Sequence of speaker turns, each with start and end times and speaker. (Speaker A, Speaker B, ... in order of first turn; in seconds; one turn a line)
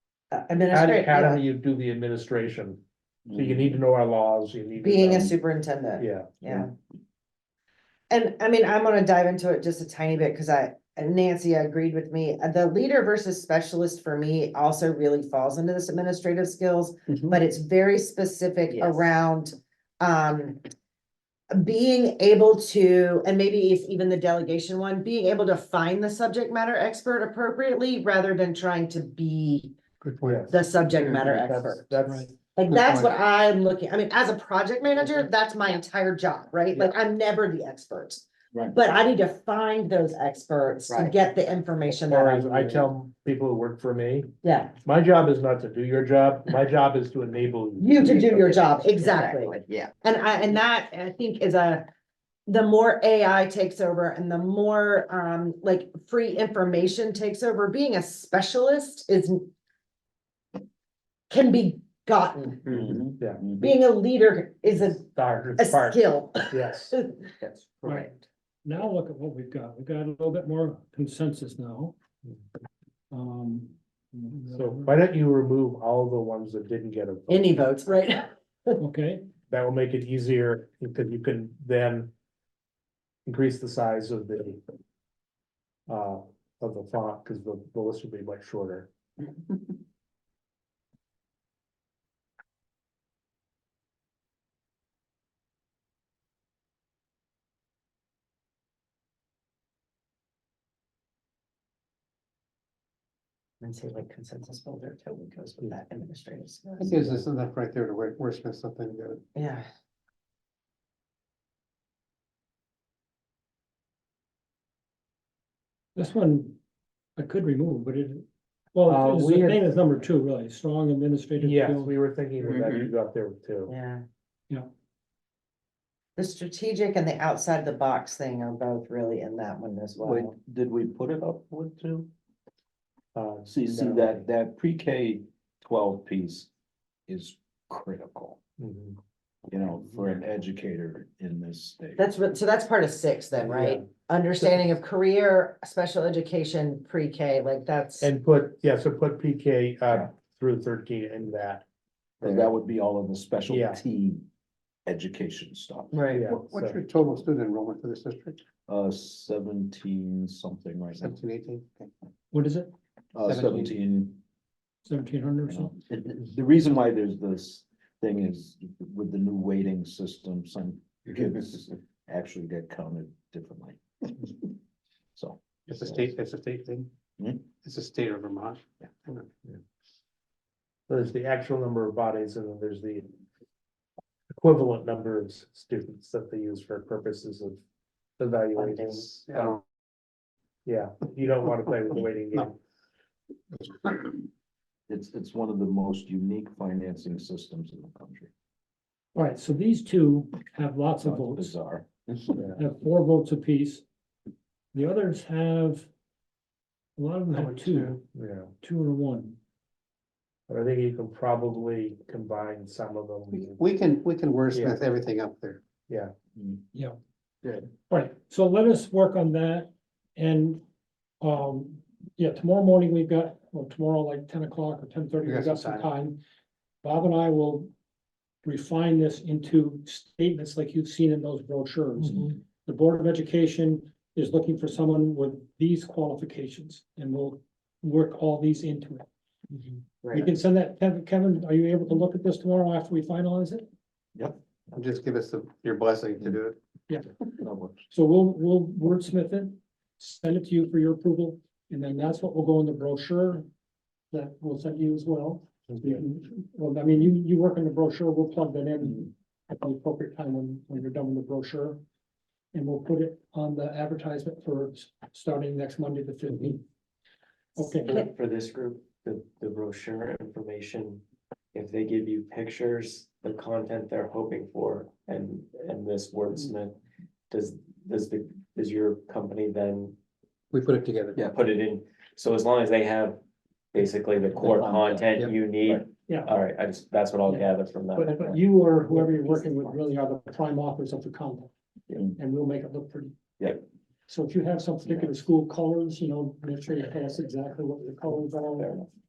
Speaker A: 0.3-1.4
Speaker B: 0.7-2.8
Speaker C: 3.3-3.7
Speaker B: 3.3-5.4
Speaker A: 4.8-6.7
Speaker B: 6.0-6.7
Speaker A: 8.1-20.6
Speaker D: 18.7-19.0
Speaker A: 21.6-29.7
Speaker E: 30.0-30.5
Speaker B: 30.2-32.5
Speaker A: 30.5-31.9
Speaker A: 32.6-42.8
Speaker E: 32.7-33.1
Speaker B: 42.0-44.3
Speaker A: 44.4-44.8
Speaker B: 44.8-48.0
Speaker A: 47.8-51.8
Speaker D: 48.0-48.6
Speaker D: 49.2-49.6
Speaker A: 52.5-59.5
Speaker A: 61.3-62.8
Speaker C: 62.7-63.7
Speaker A: 63.6-65.0
Speaker B: 64.8-66.9
Speaker A: 65.6-67.3
Speaker F: 67.8-71.9
Speaker F: 73.1-75.0
Speaker B: 74.5-77.7
Speaker A: 77.3-78.8
Speaker F: 78.8-79.3
Speaker B: 79.5-82.1
Speaker B: 83.3-84.6
Speaker B: 85.9-88.9
Speaker A: 103.6-106.9
Speaker E: 106.8-109.2
Speaker A: 109.3-109.7
Speaker F: 116.0-116.6
Speaker F: 117.2-122.0
Speaker B: 118.9-119.7
Speaker B: 121.4-123.7
Speaker C: 122.4-122.9
Speaker A: 123.7-124.0
Speaker A: 126.2-130.3
Speaker C: 130.0-132.1
Speaker B: 133.2-134.3
Speaker C: 133.5-136.5
Speaker C: 137.1-138.4
Speaker B: 138.6-139.0
Speaker C: 139.5-142.0
Speaker A: 142.0-148.1
Speaker B: 143.4-143.9
Speaker B: 144.4-144.7
Speaker B: 148.0-151.7
Speaker B: 152.2-152.5
Speaker C: 152.2-154.2
Speaker B: 153.5-153.8
Speaker C: 154.9-156.1
Speaker A: 155.9-156.3
Speaker B: 156.1-156.8
Speaker E: 156.3-158.4
Speaker C: 158.7-161.2
Speaker E: 161.0-161.9
Speaker F: 162.3-162.7
Speaker C: 163.2-164.2
Speaker E: 163.2-163.7
Speaker F: 164.8-165.7
Speaker C: 165.5-174.3
Speaker C: 175.2-175.4
Speaker E: 175.7-176.9
Speaker C: 177.2-177.5
Speaker E: 177.6-179.3
Speaker B: 180.9-183.1
Speaker B: 184.4-187.6
Speaker B: 188.2-189.6
Speaker E: 189.2-189.6
Speaker B: 190.7-192.6
Speaker E: 193.6-194.2
Speaker C: 194.9-198.3
Speaker F: 199.1-201.5
Speaker C: 201.0-202.4
Speaker F: 202.6-203.8
Speaker F: 204.7-205.9
Speaker F: 207.0-208.0
Speaker E: 207.3-208.0
Speaker B: 208.1-208.5
Speaker F: 208.6-209.4
Speaker B: 210.5-213.6
Speaker E: 213.3-215.6
Speaker B: 214.5-214.8
Speaker B: 215.9-216.1
Speaker F: 217.8-220.6
Speaker F: 221.2-226.2
Speaker E: 225.2-225.9
Speaker F: 226.8-227.7
Speaker F: 228.4-239.1
Speaker A: 240.0-240.3
Speaker F: 240.1-243.7
Speaker C: 244.2-244.8
Speaker E: 244.8-246.6
Speaker C: 247.4-247.9
Speaker F: 247.9-253.5
Speaker F: 254.1-261.8
Speaker F: 262.5-266.6
Speaker F: 267.6-268.0
Speaker D: 267.8-271.0
Speaker D: 271.5-276.8
Speaker D: 277.3-280.0
Speaker E: 280.5-281.3
Speaker D: 281.2-283.2
Speaker D: 283.7-288.4
Speaker C: 284.4-285.8
Speaker F: 287.3-291.5
Speaker D: 289.0-289.7
Speaker F: 292.2-293.2
Speaker F: 294.1-298.9